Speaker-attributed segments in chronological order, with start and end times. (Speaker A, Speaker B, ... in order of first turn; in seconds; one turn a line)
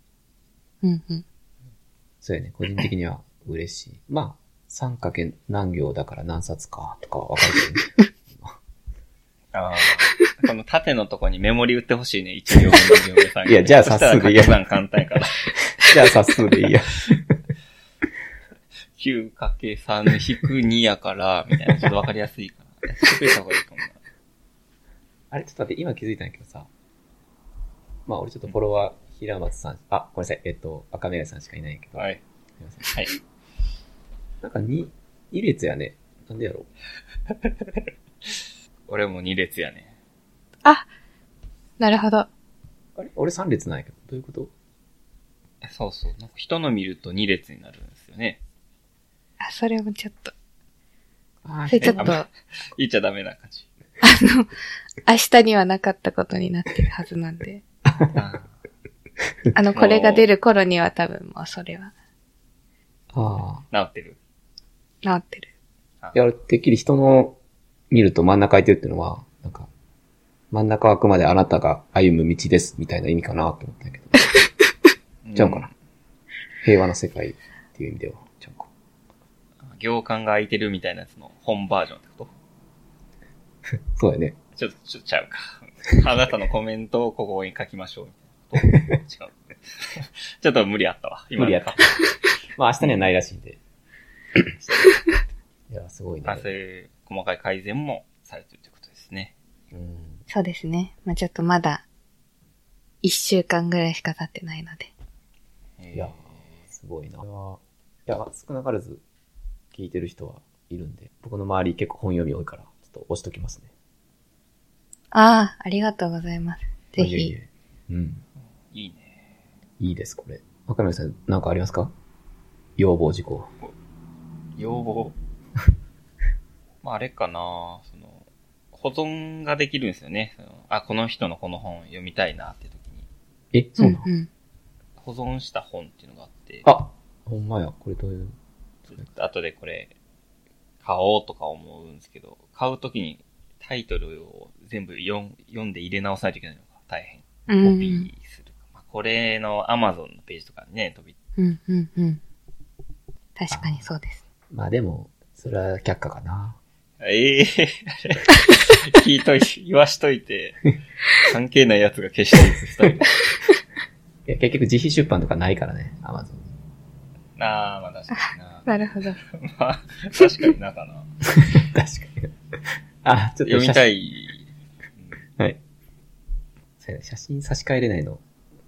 Speaker A: 0.8-1.2
Speaker B: 2.2-8.6
Speaker C: 9.5-15.5
Speaker B: 13.4-14.6
Speaker B: 15.8-17.4
Speaker C: 18.9-24.0
Speaker B: 25.3-26.7
Speaker B: 28.1-32.9
Speaker C: 32.8-33.1
Speaker B: 34.4-36.7
Speaker C: 38.2-39.9
Speaker A: 41.8-42.3
Speaker B: 43.0-44.5
Speaker C: 45.6-48.4
Speaker A: 49.4-50.3
Speaker B: 51.4-52.1
Speaker A: 51.7-52.2
Speaker C: 51.8-53.6
Speaker A: 54.0-54.5
Speaker A: 55.0-57.6
Speaker B: 57.9-58.2
Speaker C: 58.1-58.5
Speaker A: 59.5-61.9
Speaker C: 59.7-60.3
Speaker B: 63.1-63.6
Speaker C: 63.7-64.2
Speaker A: 65.0-65.5
Speaker B: 66.1-67.4
Speaker B: 67.9-69.7
Speaker B: 70.5-74.3
Speaker C: 75.2-75.7
Speaker B: 75.4-75.7
Speaker B: 76.6-78.7
Speaker C: 79.6-82.3
Speaker B: 83.9-84.4
Speaker C: 84.6-92.0
Speaker B: 91.4-91.8
Speaker B: 92.6-93.6
Speaker C: 92.8-93.1
Speaker C: 94.6-95.0
Speaker B: 95.7-96.5
Speaker C: 96.2-99.3
Speaker B: 99.7-100.2
Speaker A: 100.3-101.8
Speaker A: 103.0-104.9
Speaker C: 105.8-106.5
Speaker B: 106.7-109.0
Speaker B: 109.7-113.7
Speaker A: 115.1-117.3
Speaker B: 117.0-118.2
Speaker C: 118.7-119.2
Speaker B: 119.8-121.9
Speaker B: 122.8-123.5
Speaker C: 124.6-125.1
Speaker C: 126.8-133.1
Speaker B: 133.5-134.1
Speaker A: 133.8-134.3
Speaker C: 135.0-136.7
Speaker B: 136.6-138.4
Speaker C: 138.9-139.9
Speaker C: 140.8-151.1
Speaker A: 147.5-148.1
Speaker A: 151.4-152.2
Speaker A: 153.4-154.2
Speaker B: 153.5-153.8
Speaker B: 154.5-156.6
Speaker C: 157.0-163.1
Speaker B: 164.3-166.5
Speaker C: 167.4-168.7
Speaker A: 168.7-169.2
Speaker C: 169.2-171.1
Speaker B: 171.3-172.3
Speaker B: 173.0-173.8
Speaker C: 173.4-174.5
Speaker B: 176.8-178.2